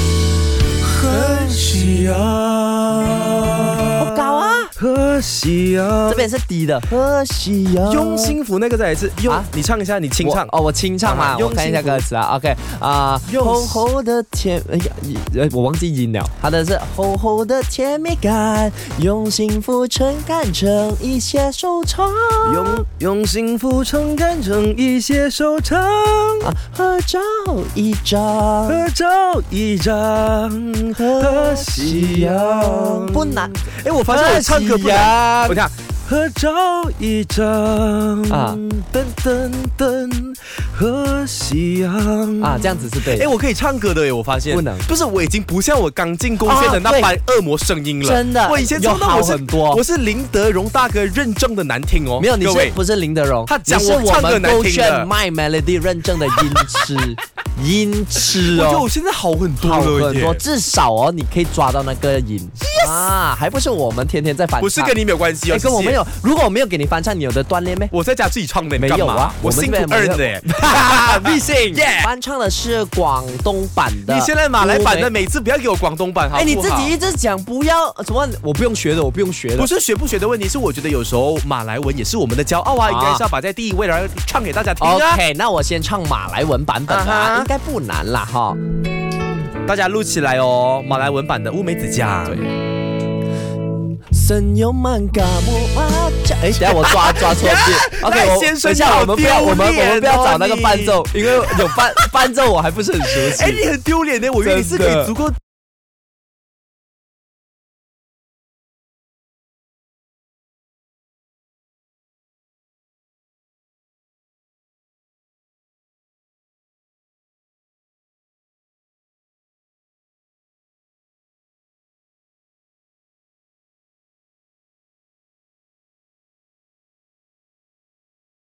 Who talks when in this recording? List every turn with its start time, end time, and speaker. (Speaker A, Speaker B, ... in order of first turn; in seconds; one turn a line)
Speaker A: 0.8-6.3
Speaker B: 4.0-4.7
Speaker B: 6.1-8.4
Speaker A: 7.8-12.1
Speaker B: 10.2-22.8
Speaker A: 13.3-13.8
Speaker A: 22.4-26.5
Speaker B: 26.4-28.9
Speaker A: 28.7-52.8
Speaker B: 30.9-35.6
Speaker B: 38.3-38.6
Speaker B: 42.4-43.3
Speaker B: 44.5-44.9
Speaker B: 46.4-47.1
Speaker B: 48.0-49.8
Speaker B: 52.2-58.9
Speaker A: 53.5-55.1
Speaker A: 56.4-56.7
Speaker A: 58.3-60.4
Speaker B: 59.6-67.9
Speaker A: 62.6-63.1
Speaker A: 64.6-66.0
Speaker A: 67.9-72.1
Speaker B: 68.8-75.1
Speaker A: 74.0-76.9
Speaker B: 76.3-79.7
Speaker A: 79.6-85.2
Speaker B: 82.8-83.3
Speaker B: 84.8-88.6
Speaker A: 86.9-87.5
Speaker A: 89.7-92.5
Speaker B: 94.1-103.7
Speaker A: 96.6-102.2
Speaker A: 103.0-105.4
Speaker B: 104.4-105.1